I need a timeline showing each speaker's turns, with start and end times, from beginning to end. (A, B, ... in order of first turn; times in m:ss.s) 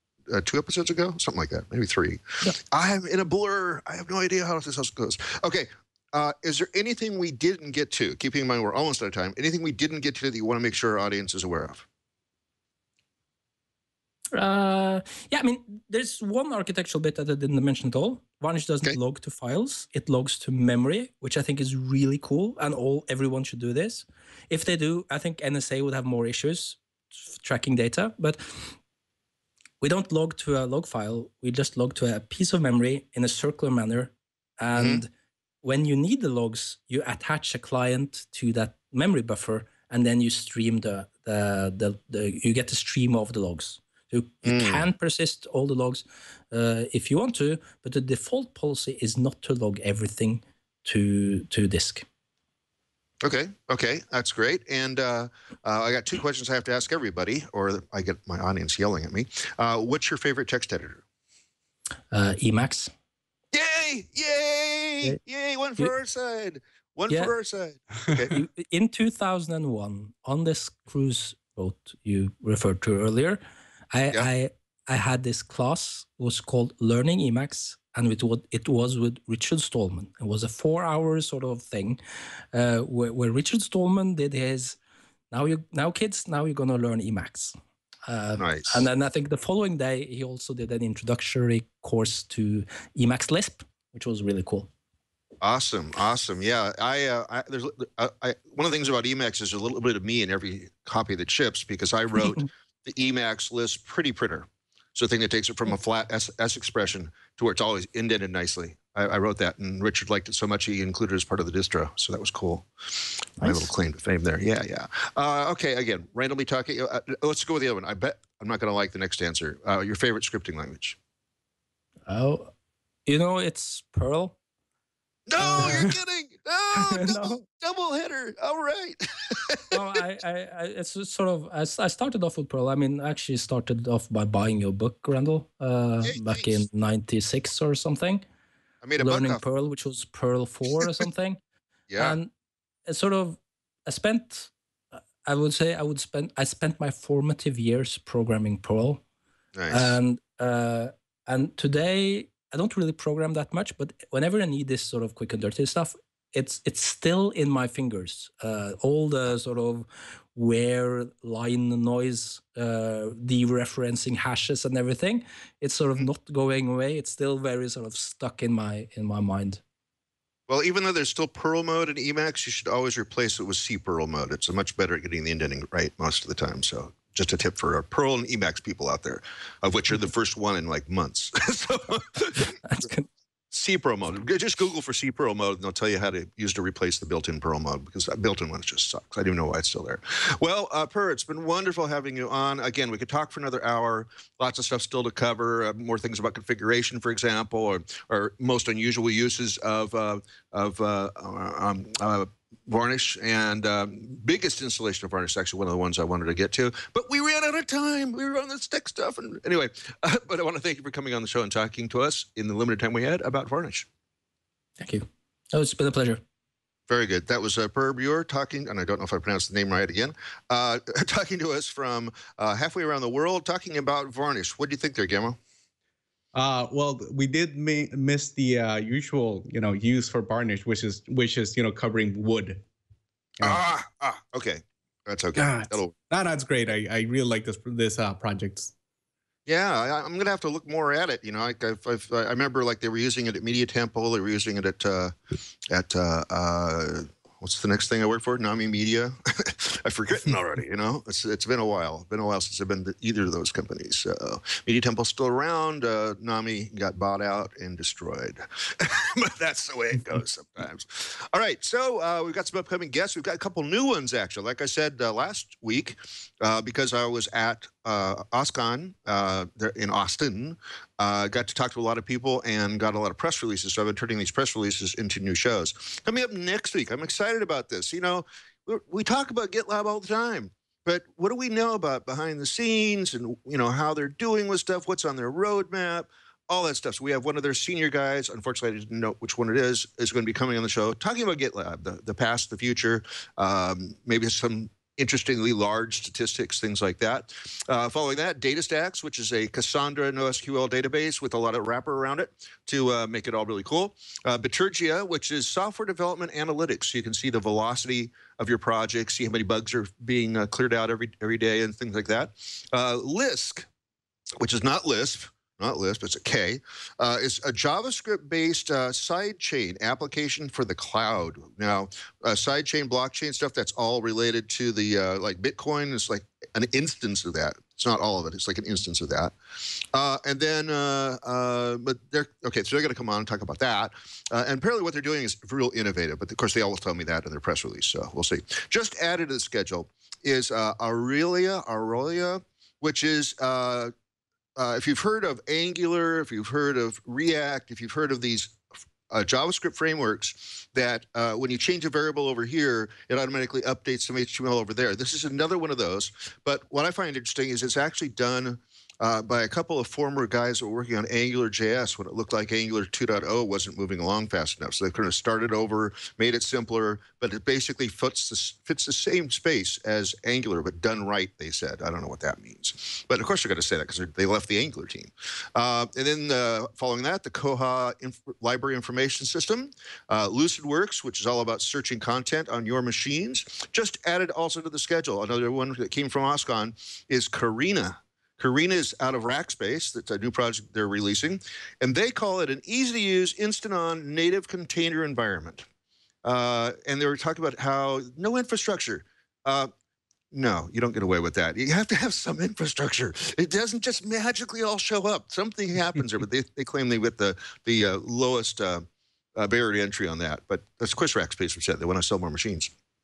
0:00.3-0:11.9 A
0:14.3-0:26.8 B
0:27.3-0:28.7 B
0:29.8-0:35.1 B
0:34.8-0:35.0 A
0:35.6-0:52.1 B
0:44.4-0:44.9 A
0:53.2-1:01.0 A
1:02.1-1:02.9 B
1:03.5-1:08.4 A
1:08.3-1:13.4 B
1:13.9-1:22.0 B
1:22.5-1:24.8 B
1:25.3-1:27.6 B
1:28.1-1:34.7 B
1:28.4-1:28.8 A
1:35.4-2:01.0 A
1:53.4-1:53.7 B
2:02.1-2:02.5 B
2:03.1-2:04.4 B
2:05.3-2:09.8 A
2:05.4-2:05.8 B
2:06.8-2:07.4 B
2:09.7-2:18.2 B
2:16.0-2:16.6 A
2:18.8-2:19.4 A
2:19.0-2:21.4 B
2:21.9-2:22.2 A
2:22.0-2:22.3 B
2:22.9-2:24.5 B
2:25.2-2:29.0 B
2:29.6-2:30.0 A
2:29.7-2:49.6 B
2:50.5-3:02.6 A
3:02.6-3:03.1 B
3:03.5-3:33.9 A
3:34.8-3:36.2 B
3:36.9-3:45.4 A
3:46.3-3:52.6 C
3:53.4-3:55.9 A
3:55.4-3:58.7 C
3:59.5-4:05.2 A
4:05.7-5:13.7 A
5:14.4-5:29.4 A
5:29.9-5:43.9 A
5:44.6-6:35.7 A
6:36.2-6:39.7 A
6:40.3-6:52.7 A